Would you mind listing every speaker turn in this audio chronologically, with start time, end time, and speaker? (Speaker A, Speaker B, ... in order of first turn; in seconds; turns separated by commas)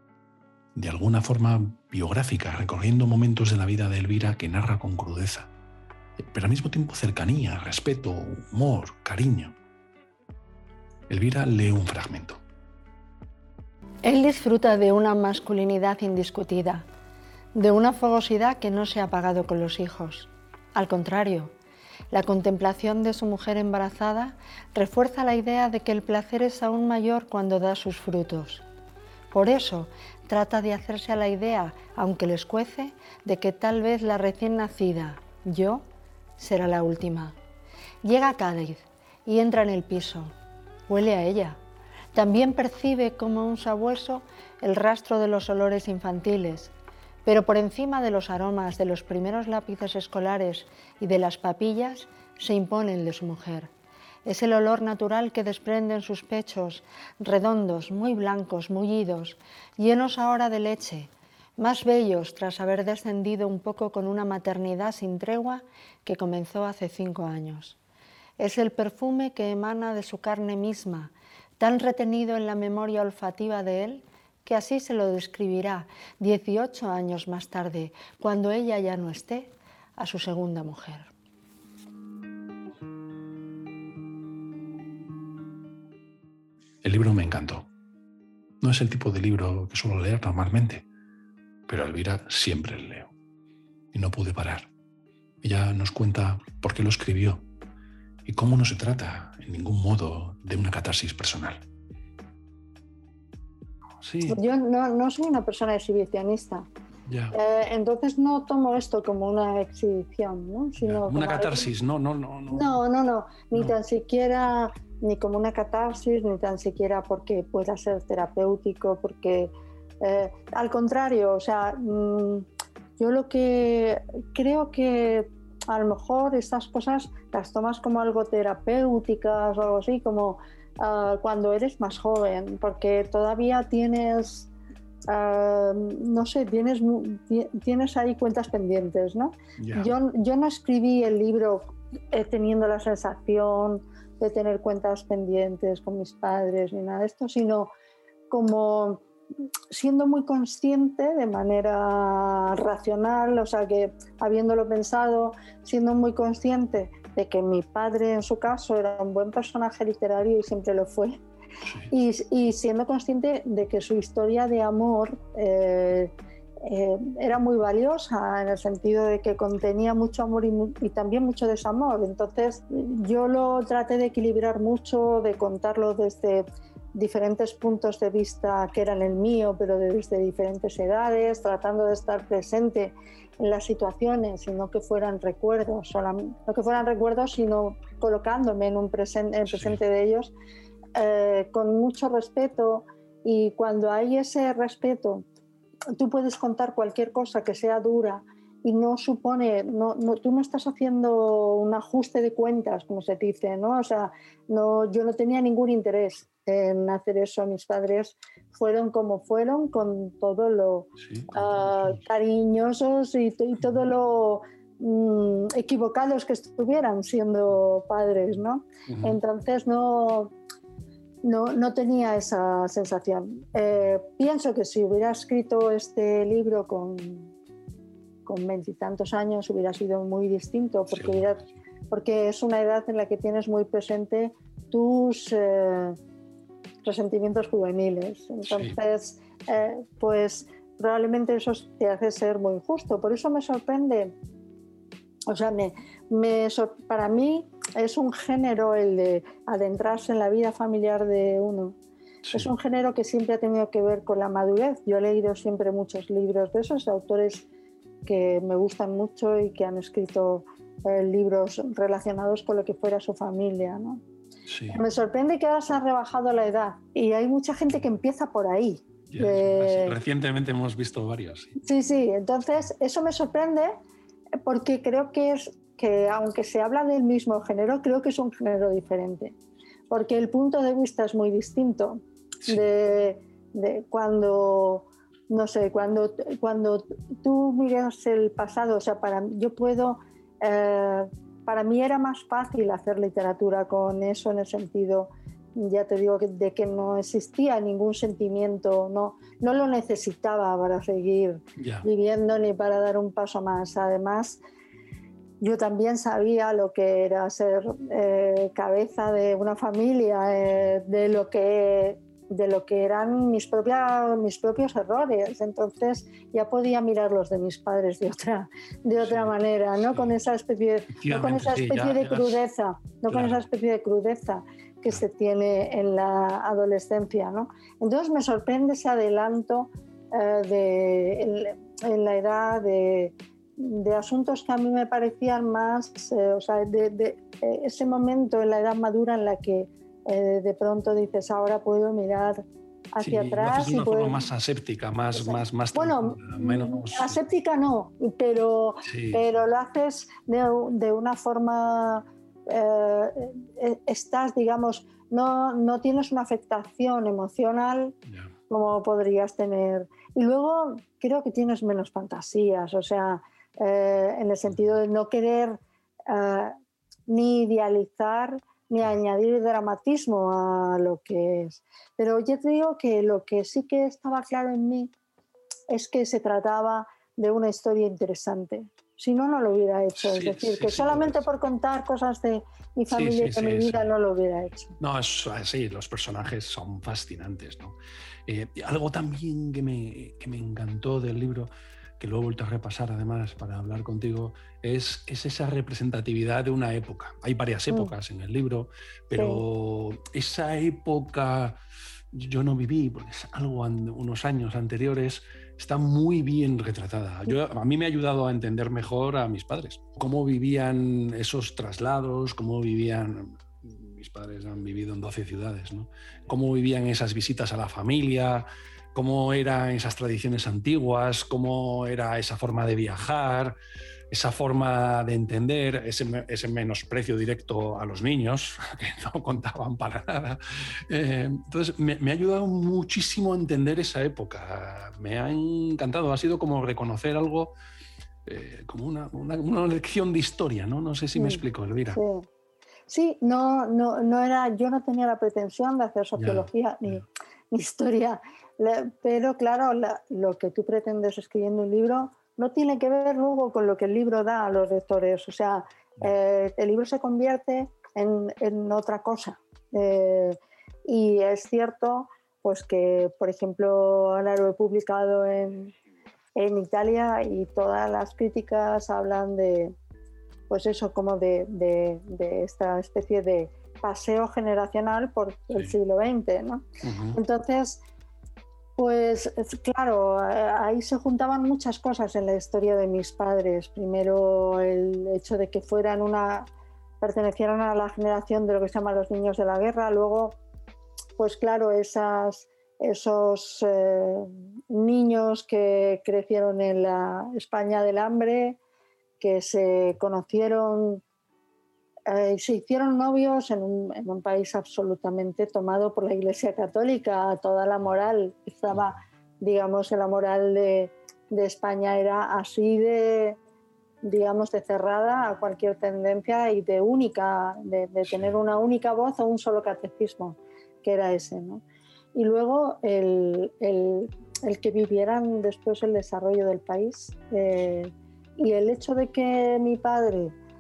Speaker A: 0.8-5.5, Speaker A: 6.2-9.6, Speaker A: 11.1-12.4, Speaker B: 14.0-16.9, Speaker B: 17.6-21.5, Speaker B: 22.1-28.6, Speaker B: 29.3-35.8, Speaker B: 36.4-37.4, Speaker B: 38.0-40.3, Speaker B: 40.9-41.6, Speaker B: 42.1-46.7, Speaker B: 47.3-53.7, Speaker B: 54.2-67.8, Speaker B: 68.4-81.1, Speaker A: 86.8-87.7, Speaker A: 88.6-90.8, Speaker A: 91.7-93.1, Speaker A: 93.9-94.7, Speaker A: 95.4-97.5, Speaker A: 98.3-101.6, Speaker A: 104.0-104.4, Speaker B: 104.3-106.7, Speaker A: 107.1-107.4, Speaker B: 107.3-111.7, Speaker A: 110.8-112.8, Speaker B: 112.5-122.5, Speaker B: 123.0-134.5, Speaker B: 135.1-147.7, Speaker A: 139.6-139.9, Speaker B: 148.3-149.0, Speaker B: 149.7-161.2, Speaker B: 161.9-166.1, Speaker B: 166.6-190.3, Speaker A: 189.5-189.8, Speaker B: 191.0-195.2, Speaker B: 195.9-220.3, Speaker A: 211.0-212.0, Speaker A: 218.9-219.2, Speaker B: 221.2-227.3, Speaker B: 228.3-236.0, Speaker A: 230.9-231.5, Speaker B: 236.8-244.2, Speaker A: 238.5-238.8, Speaker B: 245.3-251.8, Speaker A: 252.2-252.5, Speaker B: 252.3-257.5, Speaker B: 258.1-264.0, Speaker A: 264.5-264.8, Speaker B: 264.7-270.0, Speaker A: 269.1-271.6, Speaker B: 271.6-273.8, Speaker B: 274.4-279.4, Speaker B: 279.9-304.4, Speaker A: 301.6-301.9, Speaker B: 305.4-344.3, Speaker A: 319.0-319.3, Speaker A: 321.0-322.4, Speaker A: 323.1-323.4, Speaker A: 343.0-347.2, Speaker B: 345.1-357.9, Speaker A: 348.9-349.3, Speaker B: 358.5-366.6, Speaker B: 367.1-374.9, Speaker B: 375.7-384.8, Speaker A: 380.0-381.2, Speaker A: 382.9-383.9, Speaker A: 384.8-387.8, Speaker A: 388.3-391.5, Speaker A: 392.0-401.6, Speaker B: 399.1-399.4, Speaker A: 402.1-423.6, Speaker A: 424.1-437.5, Speaker A: 438.3-442.0, Speaker B: 441.2-442.3, Speaker B: 442.9-465.7, Speaker A: 446.2-447.0, Speaker B: 466.4-469.8, Speaker B: 470.5-477.8, Speaker A: 476.8-477.2, Speaker B: 478.8-486.5, Speaker B: 487.0-490.4, Speaker B: 491.2-498.6, Speaker B: 499.2-501.0, Speaker B: 502.1-513.4, Speaker B: 514.0-521.6, Speaker B: 522.1-530.4